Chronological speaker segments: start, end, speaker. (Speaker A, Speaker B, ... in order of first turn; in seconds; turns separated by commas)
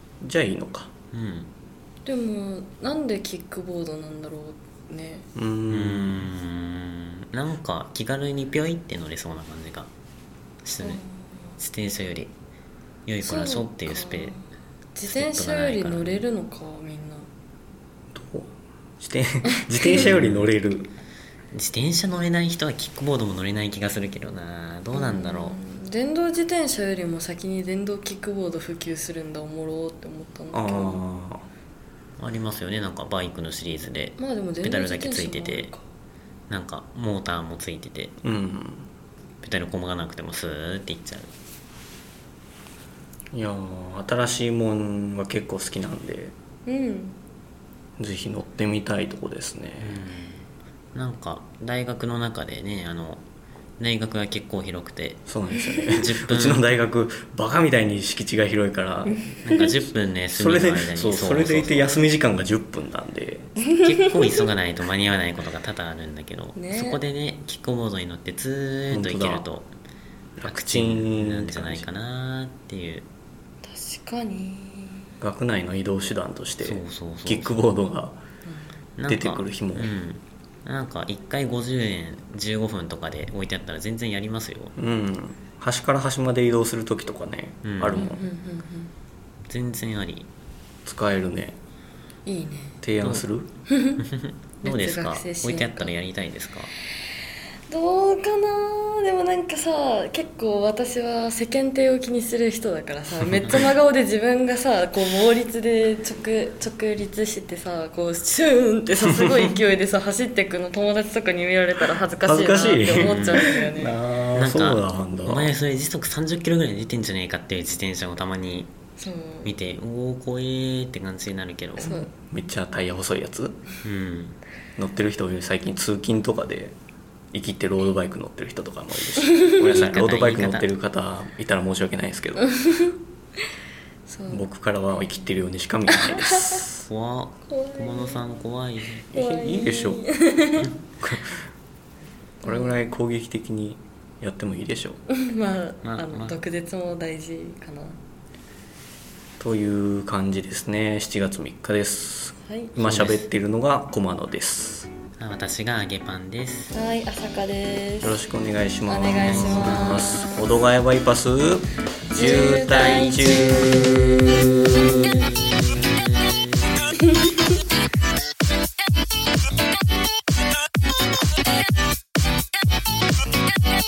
Speaker A: 0.2-0.9, Speaker B: 1.1-1.5, Speaker C: 2.1-5.3, Speaker A: 5.3-6.3, Speaker B: 5.7-9.9, Speaker B: 10.6-11.0, Speaker B: 11.6-12.3, Speaker B: 13.1-14.4, Speaker C: 13.2-14.4, Speaker C: 14.9-17.3, Speaker B: 15.1-16.2, Speaker A: 18.1-20.9, Speaker C: 19.5-20.1, Speaker B: 19.9-20.5, Speaker B: 21.5-25.6, Speaker C: 24.9-31.0, Speaker A: 30.5-31.4, Speaker B: 32.2-35.7, Speaker C: 34.2-35.8, Speaker B: 36.5-38.1, Speaker A: 38.2-38.9, Speaker B: 39.4-41.3, Speaker A: 43.3-46.3, Speaker C: 46.7-47.2, Speaker A: 48.0-50.0, Speaker B: 49.8-53.2, Speaker B: 53.8-55.2, Speaker A: 55.3-59.7, Speaker B: 55.8-56.6, Speaker C: 59.1-59.6, Speaker B: 59.4-61.9, Speaker A: 60.3-63.6, Speaker C: 63.6-64.5, Speaker B: 63.8-69.7, Speaker C: 66.5-67.0, Speaker A: 68.9-69.5, Speaker A: 70.4-71.9, Speaker B: 70.5-73.1, Speaker C: 73.6-75.1, Speaker A: 75.2-78.2, Speaker B: 76.6-77.7, Speaker B: 79.0-84.8, Speaker A: 79.1-79.9, Speaker A: 84.8-88.2, Speaker B: 87.6-88.1, Speaker C: 87.9-88.9, Speaker B: 89.5-90.3, Speaker A: 90.8-91.6, Speaker C: 92.3-92.8, Speaker A: 92.8-93.5, Speaker C: 93.7-94.0, Speaker B: 94.0-96.7, Speaker C: 94.6-95.9, Speaker C: 97.7-114.0, Speaker A: 103.3-103.6, Speaker A: 109.1-109.5, Speaker A: 112.2-115.5, Speaker B: 113.0-113.5, Speaker B: 114.3-118.7, Speaker C: 119.0-119.5, Speaker B: 119.4-122.1, Speaker C: 121.8-122.1, Speaker A: 122.1-123.6, Speaker B: 123.8-124.4, Speaker A: 124.8-126.8, Speaker A: 127.3-132.5, Speaker B: 129.7-130.7, Speaker C: 132.5-132.9, Speaker C: 134.1-134.5, Speaker A: 134.3-136.8, Speaker C: 135.9-136.7, Speaker B: 136.9-139.1, Speaker C: 137.5-138.2, Speaker A: 139.1-140.1, Speaker C: 139.1-140.7, Speaker A: 141.0-141.4, Speaker A: 142.4-145.0, Speaker C: 142.4-142.7, Speaker C: 145.1-148.0, Speaker B: 145.8-146.4, Speaker A: 149.4-154.9, Speaker C: 152.5-152.8, Speaker B: 152.8-153.2, Speaker B: 155.2-156.8, Speaker C: 156.7-158.2, Speaker A: 158.0-165.2, Speaker C: 158.9-160.6, Speaker B: 159.3-160.0, Speaker C: 162.1-164.2, Speaker B: 164.9-166.6